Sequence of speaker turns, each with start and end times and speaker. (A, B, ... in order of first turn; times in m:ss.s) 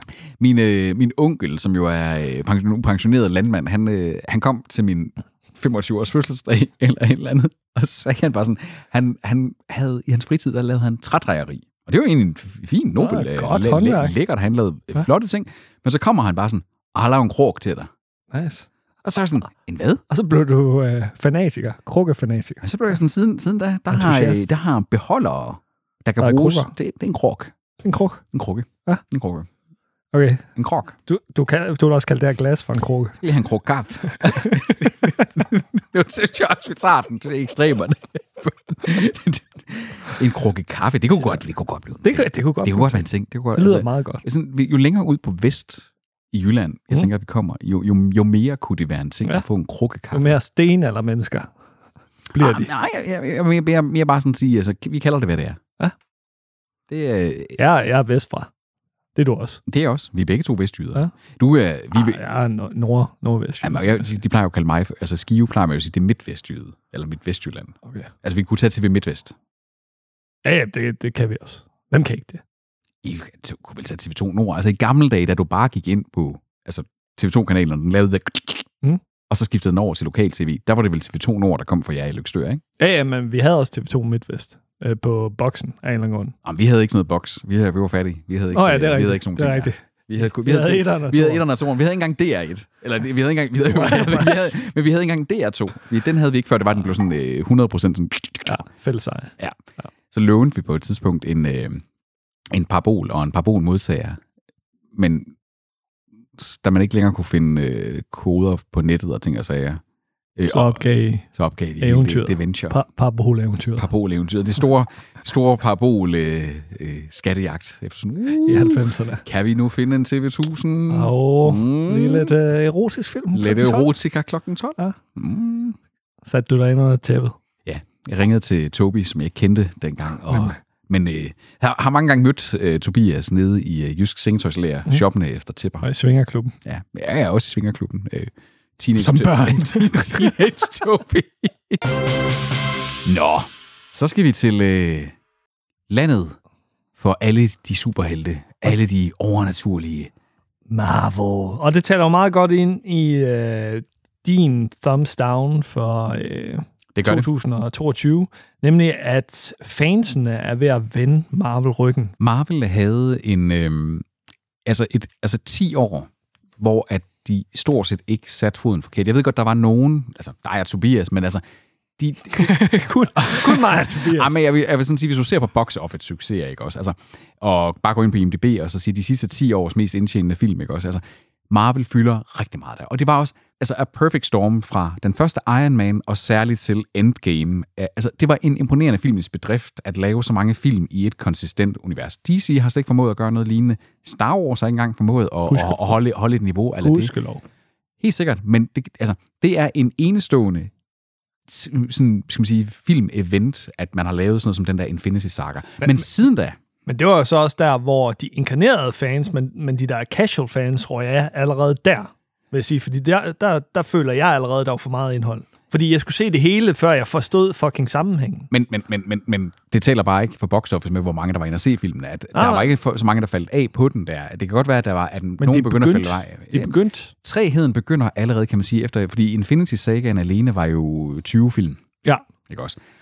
0:00.4-0:17.9 A
0:13.0-0:14.2 B
0:18.3-0:18.7 B
0:19.0-0:20.0 A
0:20.1-0:22.6 B
0:22.6-0:27.5 A
0:23.9-0:24.5 B
0:26.2-0:26.7 B
0:27.8-0:28.2 B
0:28.3-0:29.5 A
0:30.1-0:30.5 B
0:30.6-0:31.0 A
0:31.1-0:33.2 B
0:33.2-0:50.4 A
0:34.1-0:34.9 B
0:42.0-0:44.2 B
0:50.1-0:51.5 B
0:52.3-0:52.7 B
0:52.4-0:55.6 A
0:56.9-0:57.6 A
0:57.6-0:58.5 B
0:59.2-0:59.6 B
0:59.7-1:02.2 A
1:01.9-1:04.2 B
1:03.6-1:09.4 A
1:07.8-1:08.1 B
1:10.4-1:12.4 B
1:13.0-1:18.7 A
1:19.3-1:22.6 A
1:22.8-1:26.4 B
1:26.4-1:38.6 A
1:28.5-1:31.4 B
1:33.7-1:34.5 B
1:38.5-1:39.9 B
1:40.1-1:41.8 A
1:42.5-1:44.2 A
1:44.9-1:45.3 A
1:46.4-1:49.8 A
1:50.4-1:50.8 A
1:50.5-1:51.3 B
1:51.3-1:52.8 A
1:51.8-1:53.9 B
1:53.8-2:02.4 A
1:58.4-1:59.2 B
2:00.9-2:03.9 B
2:03.3-2:05.8 A
2:06.2-2:07.4 B
2:07.6-2:15.9 A
2:10.3-2:10.6 B
2:15.8-2:16.6 B
2:16.6-2:21.8 A
2:19.0-2:20.4 B
2:23.0-2:25.2 A
2:25.9-2:26.4 A
2:27.0-2:30.1 A
2:30.7-2:42.1 B
2:37.0-2:37.3 A
2:42.2-2:44.1 A
2:44.6-2:51.4 A
2:52.0-2:52.6 A
2:52.4-2:54.4 B
2:53.2-3:17.1 A
3:15.5-3:16.0 B
3:16.8-3:17.4 B
3:18.0-3:20.7 A
3:21.5-3:26.6 A
3:26.9-3:38.5 B
3:38.5-3:51.8 A
3:42.3-3:42.7 B
3:45.4-3:47.1 B
3:52.5-3:52.8 A